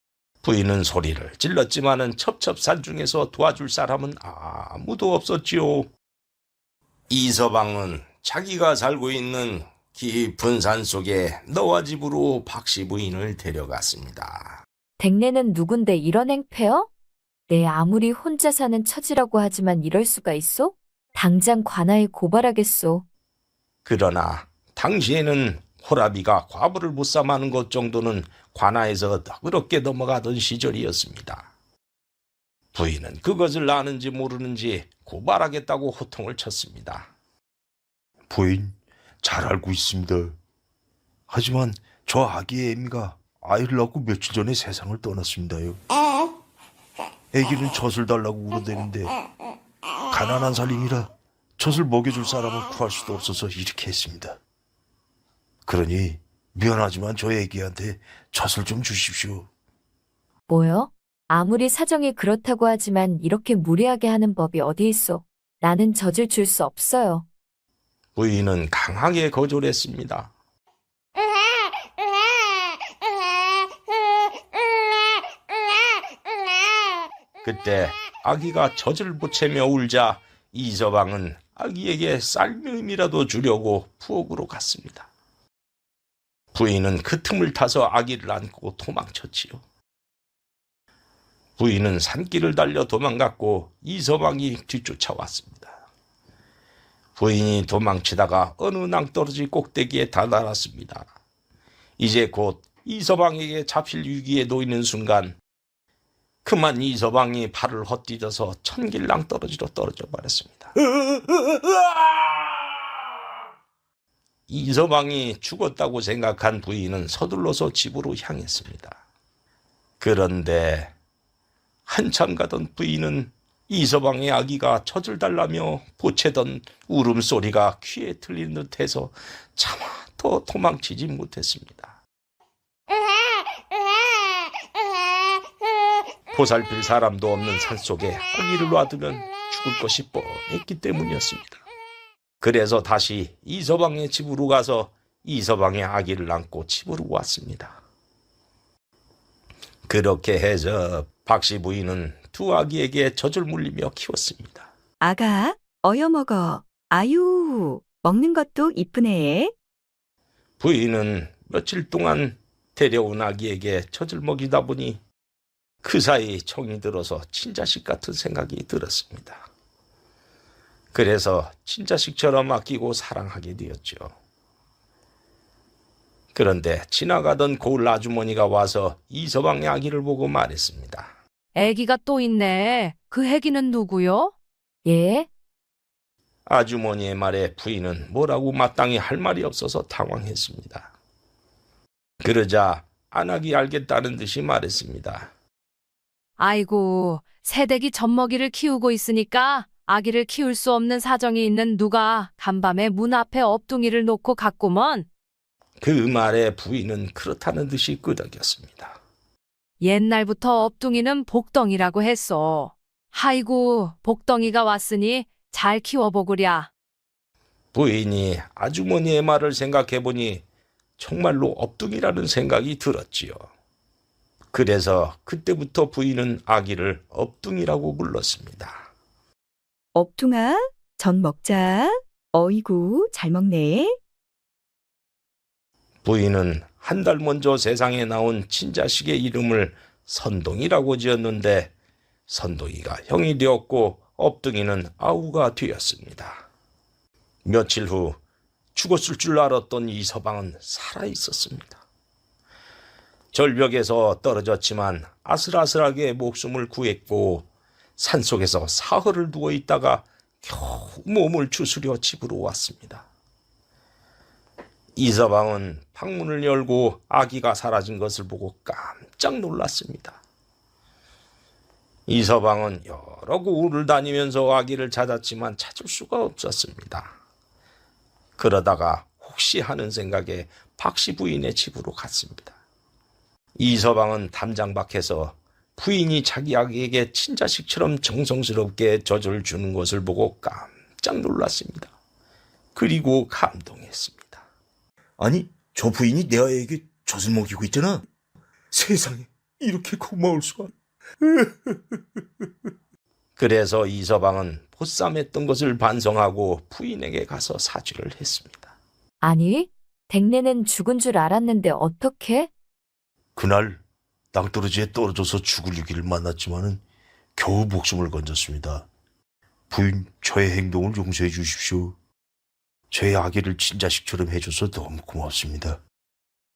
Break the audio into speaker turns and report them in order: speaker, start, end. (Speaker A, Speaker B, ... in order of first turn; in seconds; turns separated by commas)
Speaker A: 0.4-5.9, Speaker A: 7.1-14.6, Speaker B: 15.0-16.9, Speaker B: 17.5-23.1, Speaker A: 23.9-31.5, Speaker A: 32.7-37.1, Speaker C: 38.3-40.4, Speaker C: 41.3-45.8, Speaker C: 47.3-49.1, Speaker C: 50.1-54.4, Speaker C: 55.7-59.5, Speaker B: 60.5-67.3, Speaker A: 68.2-70.3, Speaker A: 77.4-85.1, Speaker A: 86.5-89.6, Speaker A: 91.6-95.8, Speaker A: 97.2-101.1, Speaker A: 102.0-105.4, Speaker A: 106.5-110.7, Speaker A: 114.5-119.0, Speaker A: 120.0-120.9, Speaker A: 121.9-131.9, Speaker A: 136.3-141.6, Speaker A: 142.4-147.8, Speaker A: 149.9-154.7, Speaker D: 155.0-159.5, Speaker A: 160.6-165.0, Speaker A: 165.8-169.4, Speaker A: 170.9-174.1, Speaker A: 176.3-181.1, Speaker E: 181.6-184.3, Speaker B: 184.8-185.3, Speaker A: 186.5-190.9, Speaker A: 192.2-195.3, Speaker E: 196.4-205.1, Speaker A: 205.8-209.0, Speaker E: 209.8-216.7, Speaker A: 217.7-220.4, Speaker A: 221.0-223.5, Speaker A: 224.5-228.9, Speaker D: 229.9-234.0, Speaker A: 236.0-241.7, Speaker A: 242.3-246.4, Speaker A: 247.4-248.2, Speaker A: 248.8-251.8, Speaker A: 253.3-263.1, Speaker A: 265.0-270.2, Speaker A: 272.1-277.1, Speaker A: 278.4-282.6, Speaker A: 283.6-291.9, Speaker A: 292.8-294.4, Speaker C: 295.2-298.1, Speaker C: 298.7-301.8, Speaker A: 303.4-308.7, Speaker B: 309.2-312.5, Speaker C: 313.4-313.8, Speaker C: 314.3-316.8, Speaker C: 317.4-318.9, Speaker C: 319.7-322.0, Speaker C: 322.9-325.8